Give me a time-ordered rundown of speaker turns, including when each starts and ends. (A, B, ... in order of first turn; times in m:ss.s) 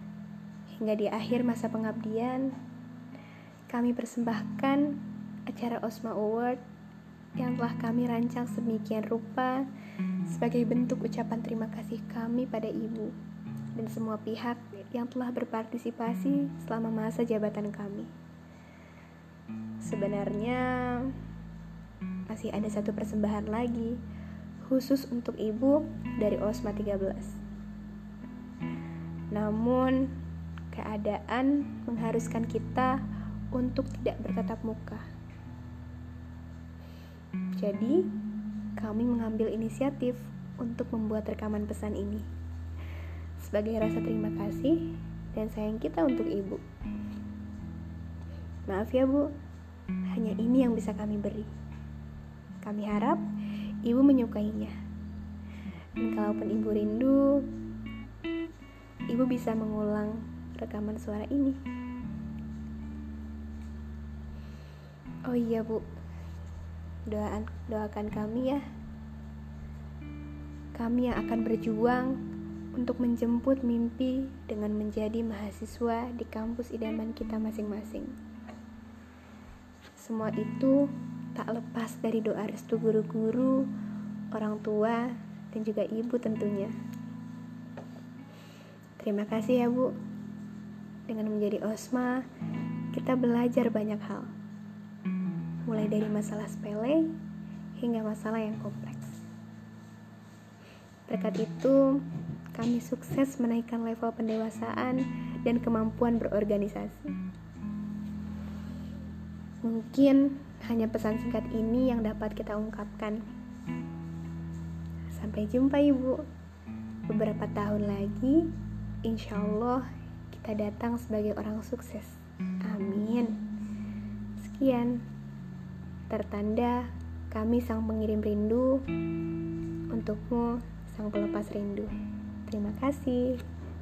0:00.8-0:02.5 A
0:03.7-0:06.6 A
0:07.4-0:09.6 A
0:10.3-0:13.1 A
0:13.8-0:18.1 A
0:19.8-0:21.2 A
0:22.3-0:24.0 A
0:24.6-0:27.4 A
0:29.3-0:30.1 A
0:30.7-0:33.0 A
0:33.5-0:35.0 A
0:37.6-0:38.1 A
0:38.8-0:42.2 A
0:43.4-0:46.6 A
0:48.7-0:49.3 A
0:50.1-0:51.5 A
0:52.6-0:53.2 A
0:53.8-0:54.7 A
0:56.0-0:57.5 A
0:59.1-1:01.6 A
1:05.3-1:05.9 A
1:07.1-1:08.6 A
1:10.8-1:12.2 A
1:12.8-1:18.1 A
1:20.0-1:23.7 A
1:24.3-1:26.7 A
1:29.0-1:29.9 A
1:31.1-1:32.2 A
1:32.9-1:34.3 A
1:35.7-1:37.1 A
1:37.8-1:39.2 A
1:41.1-1:42.0 A
1:42.5-1:47.1 A
1:49.6-1:53.2 A
1:55.1-1:56.2 A
1:57.1-1:58.5 A
1:59.0-2:03.4 A
2:04.4-2:05.0 A
2:06.1-2:08.9 A
2:09.9-2:11.9 A
2:12.5-2:13.4 A